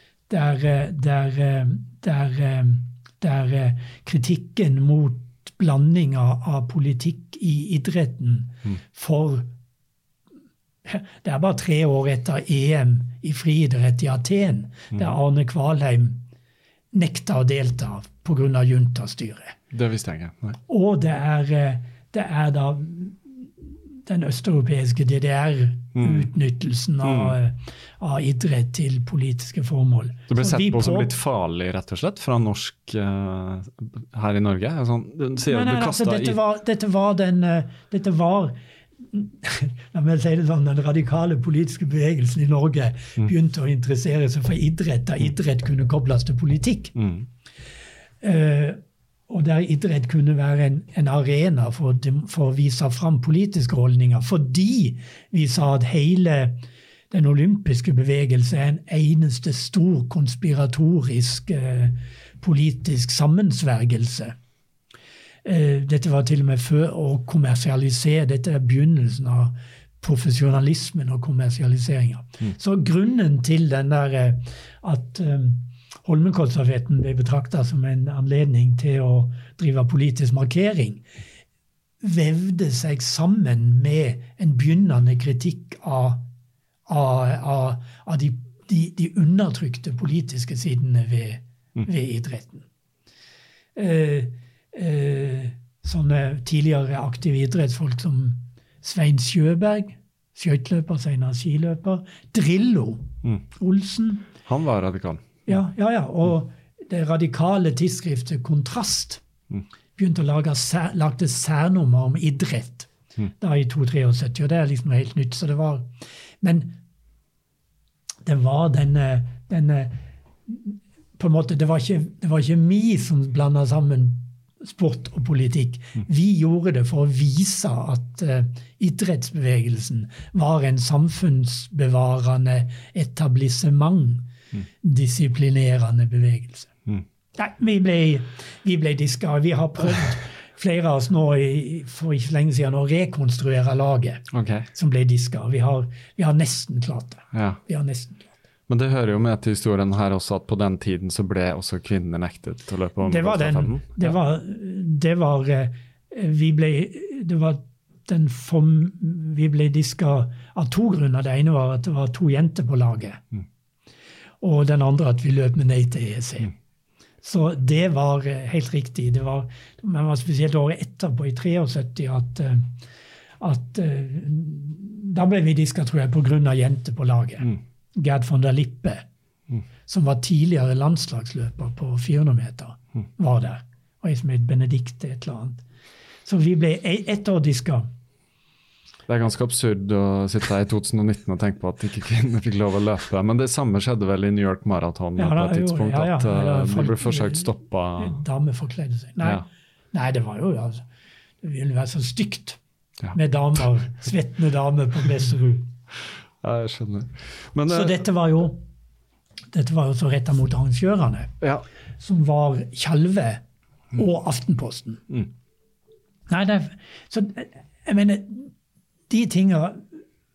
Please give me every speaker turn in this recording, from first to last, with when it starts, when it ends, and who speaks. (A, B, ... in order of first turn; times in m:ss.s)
0:00.3-0:09.5 A
0:10.8-0:16.2 A
0:16.9-0:19.6 A
0:19.7-0:20.6 B
0:20.7-0:31.1 A
0:25.9-0:26.3 B
0:27.0-0:27.4 B
0:30.3-0:36.4 B
0:35.4-0:38.6 A
0:39.1-0:46.9 A
0:47.0-0:47.3 B
0:48.2-1:04.3 A
1:05.4-1:21.0 A
1:22.0-1:26.2 A
1:26.9-1:32.6 A
1:33.8-1:44.3 A
1:44.4-1:45.4 B
1:45.4-1:49.2 A
1:50.0-1:55.9 A
1:56.4-1:56.8 A
1:58.2-2:14.3 A
2:14.8-2:16.7 A
2:17.4-2:28.3 A
2:24.3-2:24.7 B
2:27.3-2:27.6 B
2:28.7-2:34.2 B
2:33.0-2:43.2 A
2:44.4-2:46.5 A
2:47.2-2:52.7 A
2:53.4-2:59.0 A
2:59.9-3:05.6 A
3:06.2-3:07.9 A
3:09.1-3:18.2 B
3:15.2-3:20.8 A
3:21.4-3:22.6 A
3:23.1-3:25.7 A
3:26.4-3:28.0 B
3:27.7-3:28.6 A
3:29.5-3:31.3 A
3:32.0-3:33.4 A
3:33.9-3:35.0 A
3:36.3-3:38.5 A
3:39.1-3:39.9 A